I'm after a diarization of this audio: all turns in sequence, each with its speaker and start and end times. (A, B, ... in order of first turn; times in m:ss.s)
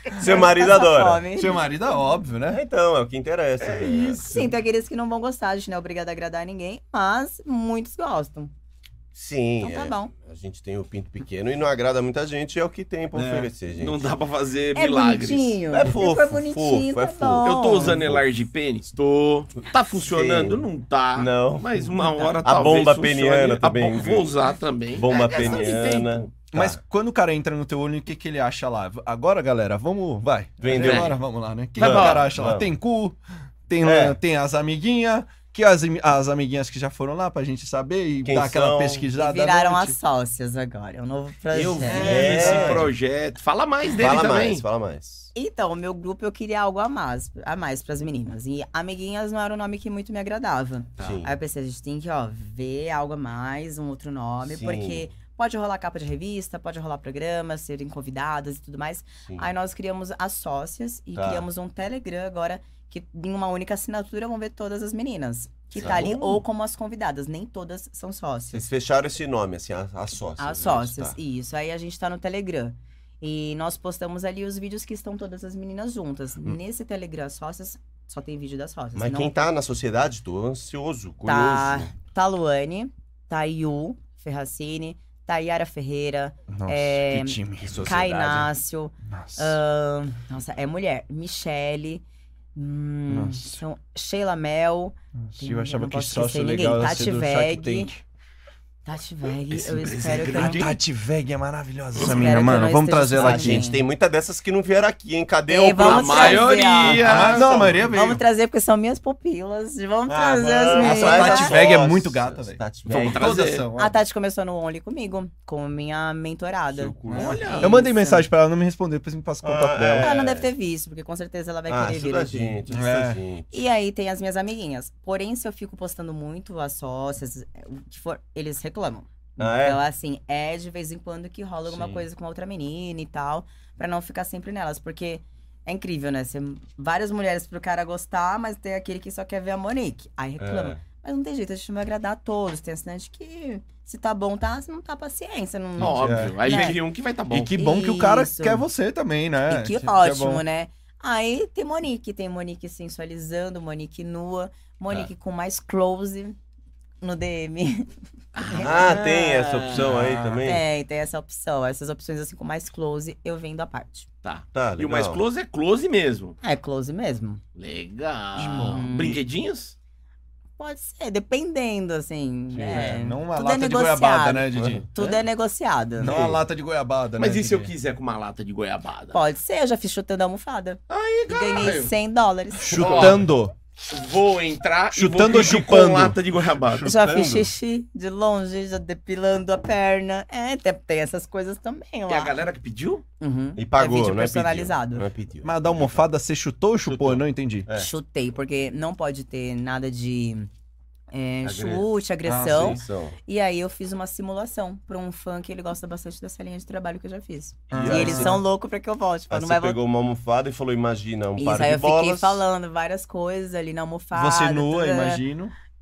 0:00.1-0:01.2 A
0:00.1-0:01.6 B
0:01.3-0:02.6 C
0:02.5-0:04.3 A
0:03.6-0:04.4 D
0:04.2-0:08.5 B
0:09.1-0:14.1 A
0:09.6-0:10.1 B
0:13.1-0:13.5 C
0:13.8-0:15.6 D
0:14.7-0:18.0 B
0:15.7-0:18.2 A
0:17.4-0:26.2 D
0:20.0-0:21.8 A
0:22.4-0:24.3 A
0:24.9-0:26.8 A
0:25.1-0:25.9 B
0:26.5-0:33.2 C
0:30.6-0:31.2 A
0:30.7-0:31.1 D
0:31.8-0:32.3 D
0:31.8-0:32.7 A
0:33.7-0:40.0 C
0:33.8-0:34.2 A
0:38.2-0:39.1 A
0:39.1-0:42.1 B
0:41.5-0:42.9 A
0:41.8-0:42.9 C
0:41.9-0:44.6 D
0:43.9-0:45.3 A
0:45.3-1:08.6 B
0:51.0-0:51.3 A
0:54.4-0:55.1 A
0:59.2-0:59.5 A
1:01.2-1:01.4 A
1:05.7-1:06.4 A
1:08.5-1:11.2 A
1:10.4-1:19.4 B
1:18.9-1:21.9 A
1:21.2-1:32.0 B
1:26.5-1:27.9 C
1:27.6-1:28.5 A
1:29.0-1:29.6 C
1:32.5-1:38.0 B
1:33.1-1:33.6 C
1:35.2-1:38.0 C
1:38.8-1:40.7 B
1:39.5-1:40.7 D
1:40.4-1:43.6 C
1:42.0-1:43.8 B
1:43.2-1:46.6 A
1:45.5-1:51.6 B
1:45.8-1:47.9 D
1:46.8-1:48.2 C
1:47.1-1:47.6 A
1:50.1-1:53.5 A
1:50.8-1:54.0 C
1:52.9-1:53.7 D
1:53.7-1:58.3 B
1:56.7-1:57.5 A
1:57.1-1:57.8 D
1:57.1-2:00.1 C
1:59.4-2:00.5 A
2:00.0-2:02.6 B
2:01.7-2:03.6 A
2:02.7-2:03.2 C
2:03.5-2:26.8 B
2:09.4-2:09.8 A
2:11.7-2:12.0 C
2:20.4-2:20.8 A
2:25.8-2:27.5 D
2:25.8-2:30.4 C
2:27.5-2:28.6 B
2:29.5-2:36.4 B
2:37.0-2:37.9 B
2:38.3-2:39.9 D
2:38.4-2:39.4 B
2:38.6-2:40.6 A
2:39.7-2:40.5 C
2:40.4-2:44.1 B
2:44.2-2:46.4 D
2:44.5-2:45.2 A
2:46.4-2:47.4 B
2:47.6-2:49.7 D
2:48.4-2:49.2 B
2:48.4-2:48.9 C
2:50.6-2:56.4 B
2:52.5-2:54.8 C
2:54.6-2:54.8 A
2:56.0-2:57.7 C
2:57.2-2:59.2 D
2:59.1-3:03.1 B
3:00.9-3:01.9 D
3:02.7-3:03.3 A
3:02.7-3:03.5 C
3:02.8-3:03.2 D
3:03.9-3:06.8 D
3:04.9-3:06.2 C
3:06.6-3:07.5 A
3:06.8-3:12.3 B
3:12.1-3:13.0 D
3:13.2-3:15.1 B
3:13.6-3:16.1 A
3:15.4-3:17.7 C
3:16.8-3:17.9 A
3:17.7-3:20.5 B
3:21.1-3:29.8 B
3:21.4-3:21.8 A
3:22.2-3:22.8 C
3:22.5-3:23.2 A
3:27.7-3:28.4 C
3:27.7-3:28.4 A
3:29.3-3:32.4 A
3:31.4-3:35.2 B
3:34.1-3:35.5 C